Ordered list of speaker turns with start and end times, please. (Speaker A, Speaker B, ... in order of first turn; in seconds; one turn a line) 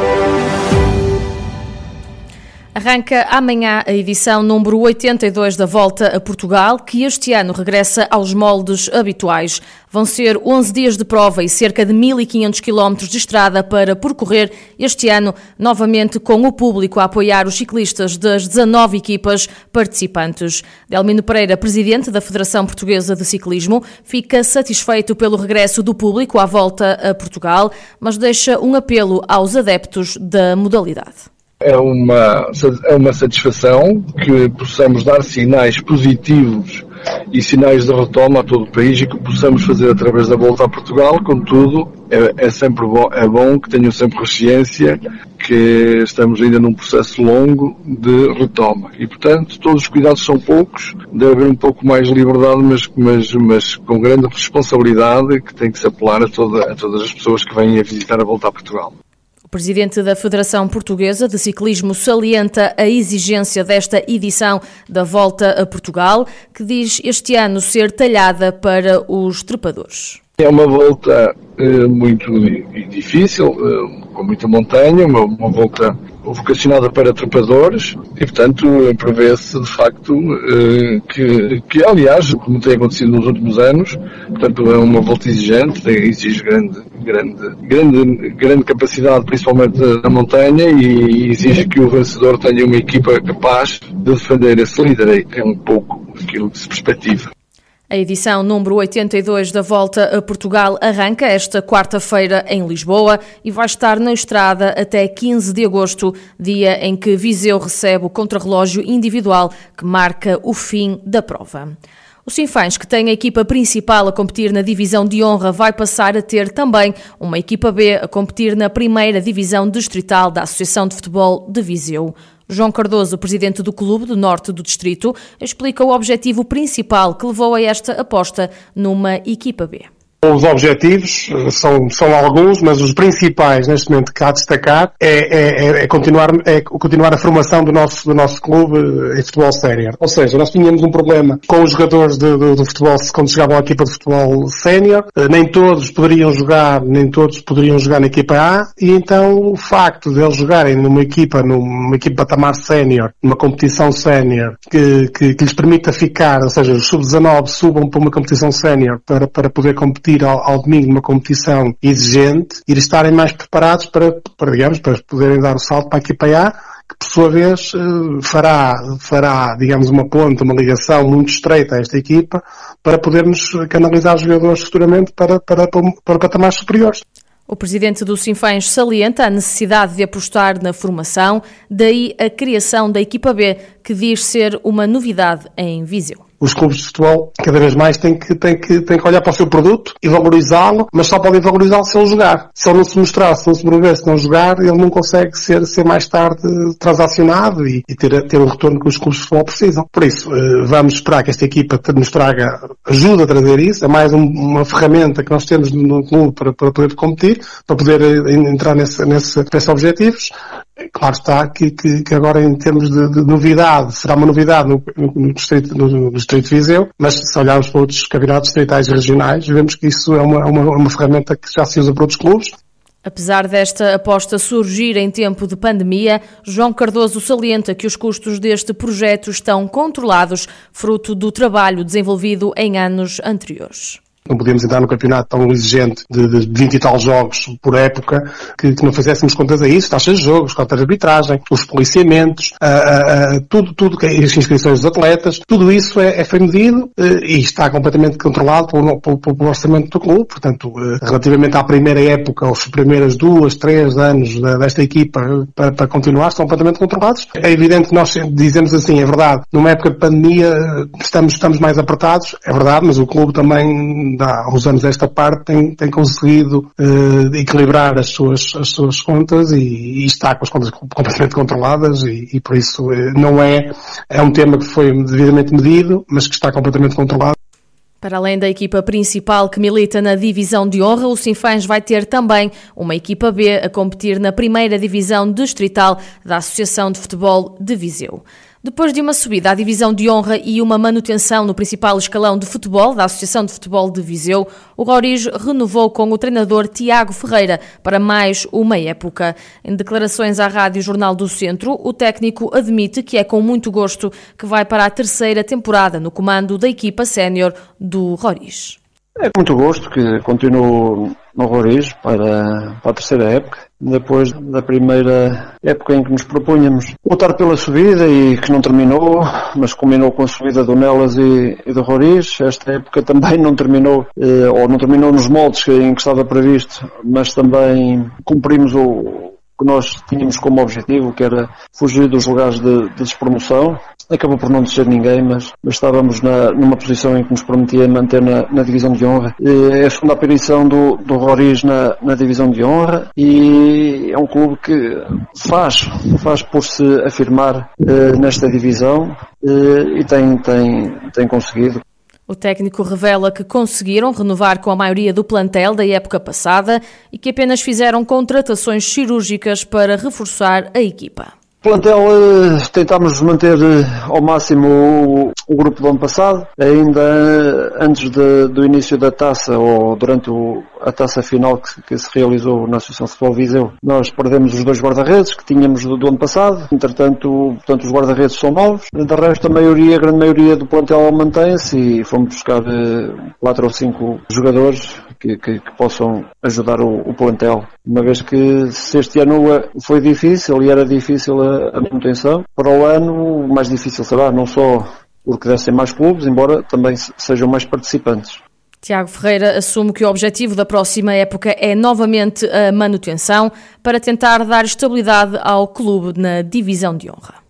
Speaker A: 2.7-31.2
Speaker B: 31.6-58.9
Speaker A: 59.5-70.2
Speaker B: 70.4-97.3
Speaker A: 97.9-129.9
Speaker C: 130.2-177.0
Speaker A: 177.5-186.2
Speaker C: 186.4-210.3
Speaker C: 210.9-222.5
Speaker A: 223.0-234.0
Speaker C: 234.3-277.3
Speaker A: 278.0-308.8
Speaker D: 309.2-351.8
Speaker A: 352.3-361.3
Speaker D: 361.6-398.4
Speaker A: 398.8-407.4